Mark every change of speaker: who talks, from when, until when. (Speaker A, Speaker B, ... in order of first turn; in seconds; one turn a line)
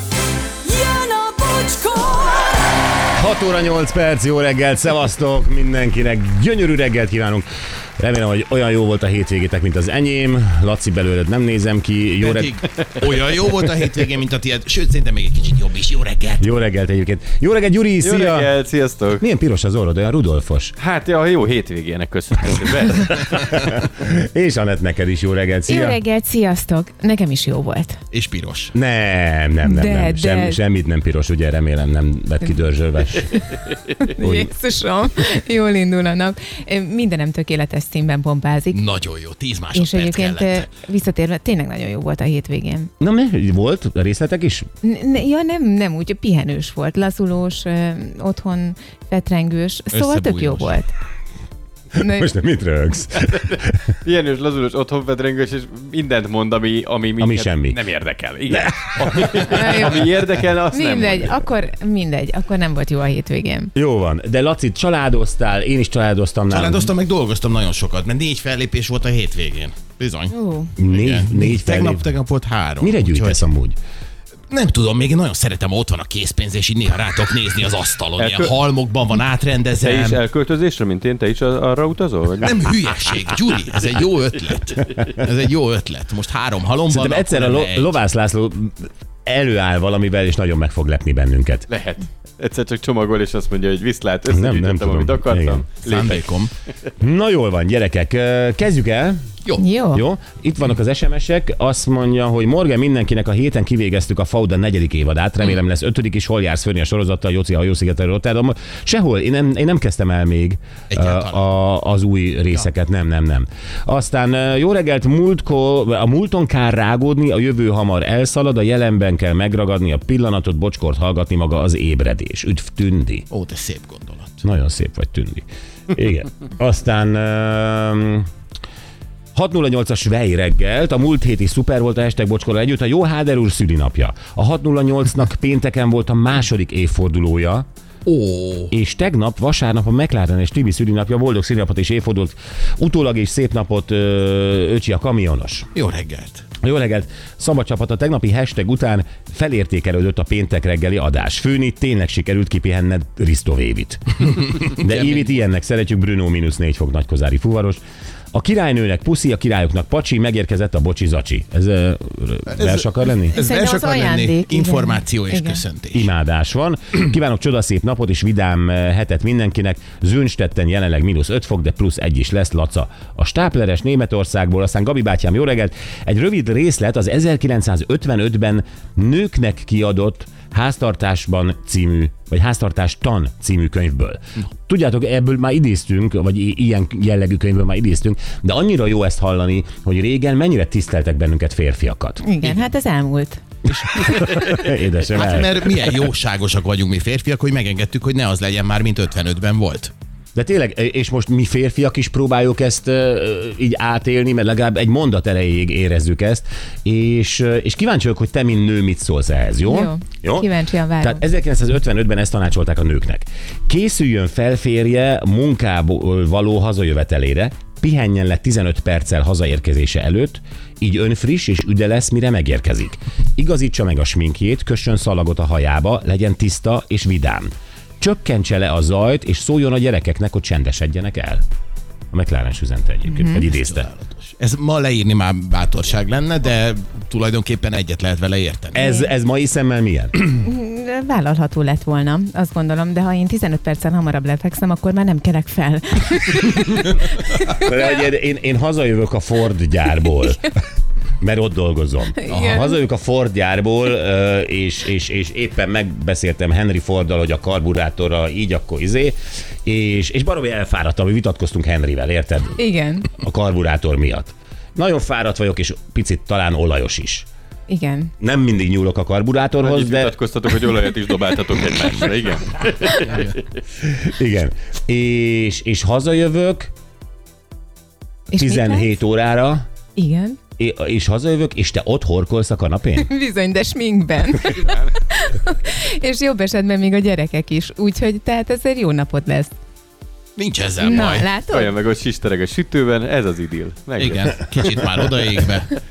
Speaker A: 0.6-2.8
Speaker B: 3.1-12.6
Speaker C: 12.2-16.5
Speaker B: 16.4-18.5
Speaker D: 18.0-19.3
Speaker B: 19.2-20.7
Speaker D: 20.8-23.4
Speaker B: 23.0-26.0
Speaker E: 25.7-28.0
Speaker C: 28.1-28.7
Speaker B: 28.7-33.5
Speaker E: 29.6-30.6
Speaker E: 34.0-38.8
Speaker B: 34.2-34.5
Speaker C: 38.7-40.7
Speaker E: 39.7-42.9
Speaker B: 43.0-44.7
Speaker E: 44.8-50.9
Speaker C: 49.9-50.8
Speaker E: 52.0-52.4
Speaker B: 52.0-53.8
Speaker D: 54.0-61.4
Speaker B: 57.2-57.8
Speaker E: 59.5-60.1
Speaker E: 60.7-63.7
Speaker B: 63.8-66.9
Speaker C: 66.5-73.4
Speaker E: 70.3-70.7
Speaker B: 70.8-72.0
Speaker B: 72.8-73.8
Speaker C: 74.5-80.2
Speaker D: 78.2-78.5
Speaker D: 79.8-82.6
Speaker C: 82.4-88.0
Speaker B: 86.9-91.7
Speaker D: 91.7-96.3
Speaker B: 94.3-95.7
Speaker C: 95.8-96.5
Speaker B: 97.0-99.2
Speaker E: 99.6-100.0
Speaker B: 99.9-123.3
Speaker C: 110.9-111.5
Speaker C: 123.3-124.4
Speaker B: 124.4-128.3
Speaker B: 129.3-137.7
Speaker C: 138.1-138.7
Speaker B: 138.7-145.7
Speaker C: 145.8-146.5
Speaker B: 146.6-157.8
Speaker C: 154.5-155.4
Speaker B: 158.3-163.4
Speaker C: 162.5-166.1
Speaker E: 163.3-165.6
Speaker B: 165.9-192.2
Speaker E: 192.2-193.4
Speaker B: 193.7-195.7
Speaker C: 194.2-194.6
Speaker C: 195.1-199.9
Speaker B: 200.3-231.4
Speaker E: 209.7-211.2
Speaker B: 232.1-233.9
Speaker E: 233.1-233.4
Speaker C: 233.4-238.8
Speaker B: 238.7-240.2
Speaker E: 238.8-239.1
Speaker E: 240.4-247.7
Speaker B: 247.5-250.5
Speaker B: 251.2-267.3
Speaker E: 252.2-252.8
Speaker C: 252.3-252.6
Speaker E: 262.6-263.1
Speaker E: 267.7-268.1
Speaker B: 268.2-270.2
Speaker D: 269.6-273.5
Speaker C: 273.0-273.4
Speaker B: 273.9-276.7
Speaker E: 278.3-278.9
Speaker B: 278.4-279.6
Speaker E: 280.0-280.4
Speaker B: 280.6-283.1
Speaker E: 283.0-289.5
Speaker C: 290.4-291.3
Speaker E: 290.8-291.7
Speaker D: 291.5-294.4
Speaker C: 294.0-295.8